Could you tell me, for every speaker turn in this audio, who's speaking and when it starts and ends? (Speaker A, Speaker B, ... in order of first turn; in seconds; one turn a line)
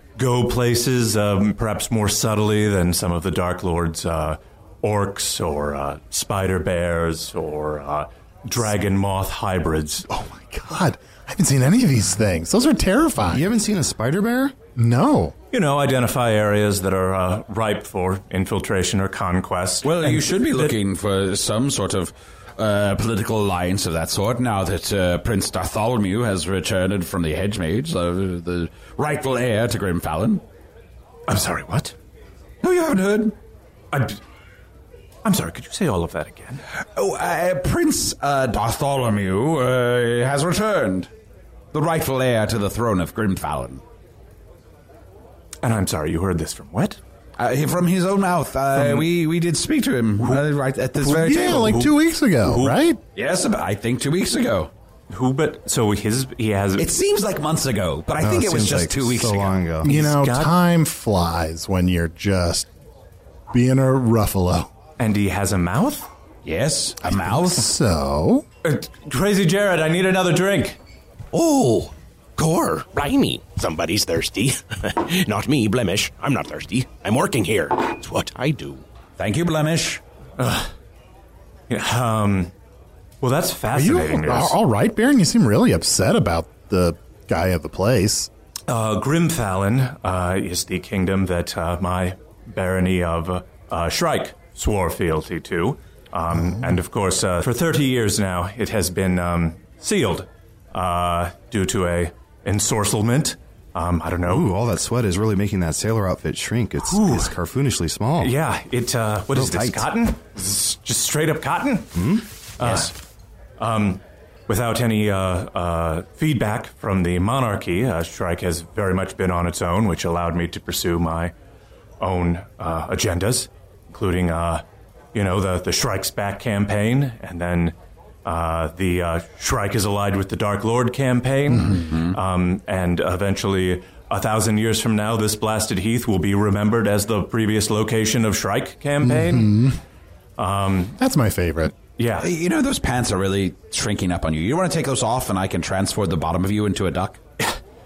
Speaker A: 0.2-10.1
Speaker B: 10.1-13.4
Speaker C: 13.3-14.6
Speaker B: 14.8-15.3
Speaker A: 15.5-20.8
Speaker D: 19.8-30.4
Speaker A: 31.3-31.9
Speaker D: 32.6-33.4
Speaker A: 33.9-34.2
Speaker A: 35.2-36.6
Speaker D: 36.8-41.1
Speaker D: 41.7-43.8
Speaker A: 45.6-47.0
Speaker D: 47.4-51.8
Speaker A: 48.8-49.1
Speaker B: 51.0-53.0
Speaker A: 51.1-52.8
Speaker D: 53.2-54.7
Speaker A: 55.1-56.9
Speaker D: 56.8-59.6
Speaker C: 58.2-59.9
Speaker B: 59.8-62.7
Speaker A: 59.9-60.5
Speaker B: 63.5-64.7
Speaker A: 65.0-66.1
Speaker D: 66.5-67.7
Speaker B: 67.1-68.5
Speaker A: 68.6-70.8
Speaker E: 71.3-78.8
Speaker D: 79.2-80.0
Speaker A: 80.4-80.7
Speaker A: 81.7-82.5
Speaker A: 83.2-84.6
Speaker B: 83.7-88.3
Speaker A: 88.7-104.5
Speaker C: 104.3-108.3
Speaker A: 106.9-107.3
Speaker A: 108.2-112.0
Speaker C: 109.3-109.9
Speaker C: 111.9-112.2
Speaker A: 112.6-112.9
Speaker D: 112.6-112.9
Speaker A: 113.6-121.3
Speaker A: 122.0-124.6
Speaker A: 125.1-139.6
Speaker D: 131.7-132.2
Speaker B: 139.0-139.8
Speaker A: 140.4-141.0
Speaker B: 141.0-141.7
Speaker A: 141.8-142.3
Speaker D: 142.2-147.2